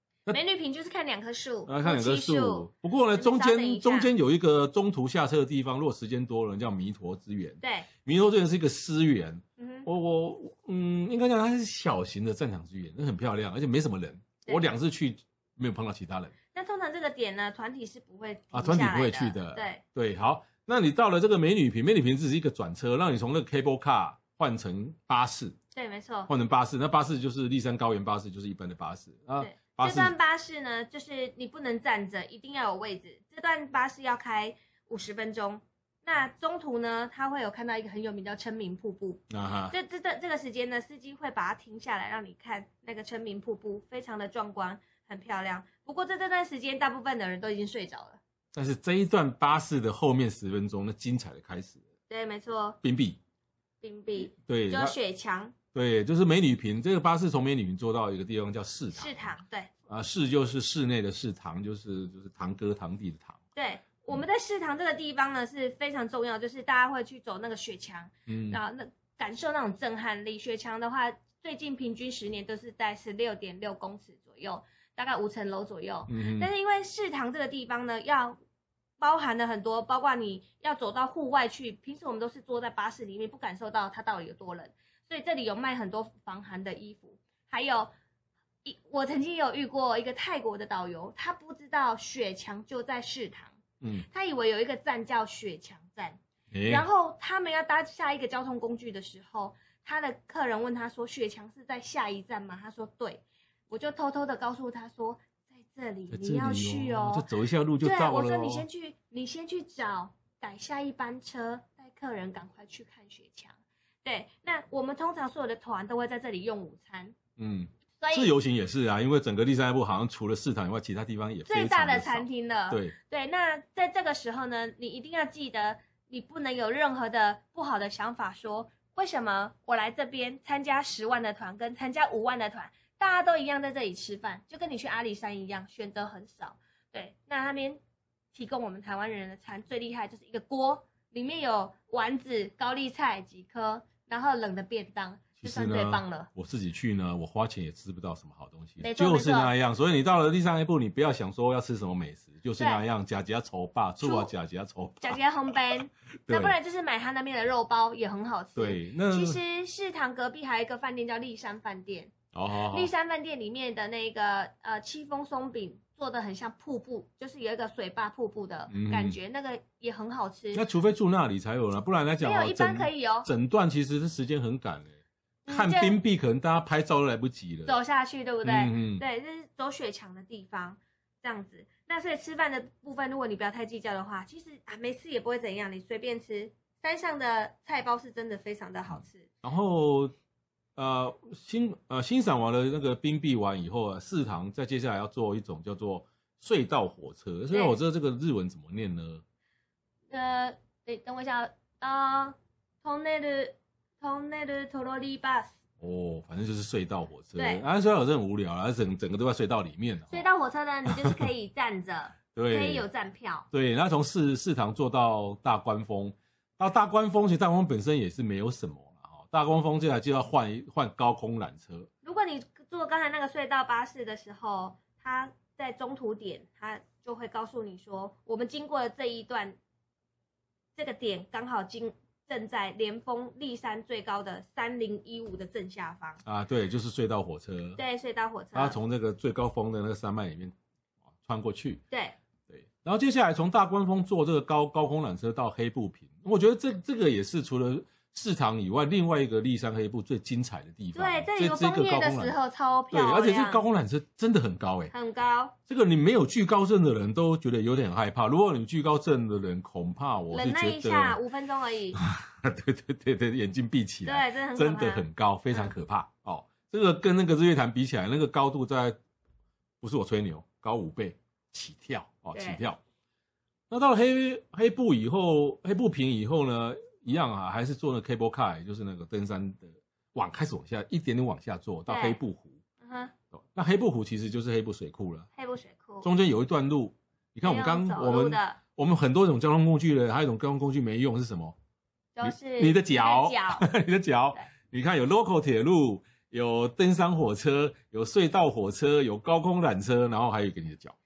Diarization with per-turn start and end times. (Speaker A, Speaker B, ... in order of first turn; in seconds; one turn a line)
Speaker A: 0.3-4.1
Speaker B: 1.6-16.3
Speaker A: 7.6-7.9
Speaker A: 9.6-9.9
Speaker A: 16.5-19.8
Speaker B: 18.5-25.6
Speaker A: 25.7-26.3
Speaker B: 26.3-30.1
Speaker A: 29.4-48.2
Speaker B: 39.3-39.7
Speaker B: 48.5-51.8
Speaker A: 52.1-52.8
Speaker B: 52.8-53.2
Speaker A: 53.8-55.5
Speaker B: 54.3-55.0
Speaker B: 55.7-59.4
Speaker A: 58.9-59.7
Speaker B: 59.9-63.4
Speaker A: 63.5-78.4
Speaker B: 68.3-68.6
Speaker B: 76.1-76.5
Speaker A: 79.0-87.9
Speaker A: 88.6-107.3
Speaker B: 93.8-94.0
Speaker B: 96.5-96.8
Speaker B: 106.1-108.7
Speaker A: 107.8-117.2
Speaker B: 117.4-122.9
Speaker A: 118.0-118.3
Speaker A: 121.5-137.8
Speaker A: 138.3-146.3
Speaker B: 145.4-155.6
Speaker A: 148.8-149.5
Speaker A: 154.0-154.3
Speaker A: 155.0-162.1
Speaker B: 156.3-156.6
Speaker B: 158.5-159.4
Speaker B: 162.3-162.9
Speaker A: 162.7-170.6
Speaker B: 168.7-169.2
Speaker B: 170.5-174.9
Speaker A: 172.2-173.3
Speaker A: 175.4-176.0
Speaker B: 175.5-177.8
Speaker A: 177.7-189.3
Speaker B: 178.4-179.0
Speaker B: 188.9-190.1
Speaker B: 190.8-199.2
Speaker A: 197.5-197.8
Speaker A: 200.1-205.5
Speaker B: 205.8-210.3
Speaker A: 207.3-207.6
Speaker A: 210.1-213.5
Speaker B: 210.9-211.2
Speaker B: 212.3-212.8
Speaker B: 213.5-221.9
Speaker A: 222.0-229.6
Speaker A: 230.8-236.2
Speaker B: 236.2-237.8
Speaker A: 237.8-238.8
Speaker B: 238.5-240.5
Speaker B: 241.2-241.8
Speaker A: 241.9-242.2
Speaker B: 242.5-252.4
Speaker A: 250.9-253.6
Speaker B: 252.9-254.9
Speaker A: 254.9-255.5
Speaker B: 255.7-261.2
Speaker A: 260.3-262.0
Speaker B: 261.9-269.0
Speaker A: 264.0-265.7
Speaker B: 269.8-272.8
Speaker A: 272.3-272.6
Speaker B: 273.7-282.6
Speaker A: 281.9-282.2
Speaker A: 282.8-283.1
Speaker B: 283.3-285.3
Speaker A: 285.4-286.1
Speaker B: 286.0-291.5
Speaker A: 287.4-288.6
Speaker A: 292.1-293.7
Speaker B: 292.2-300.9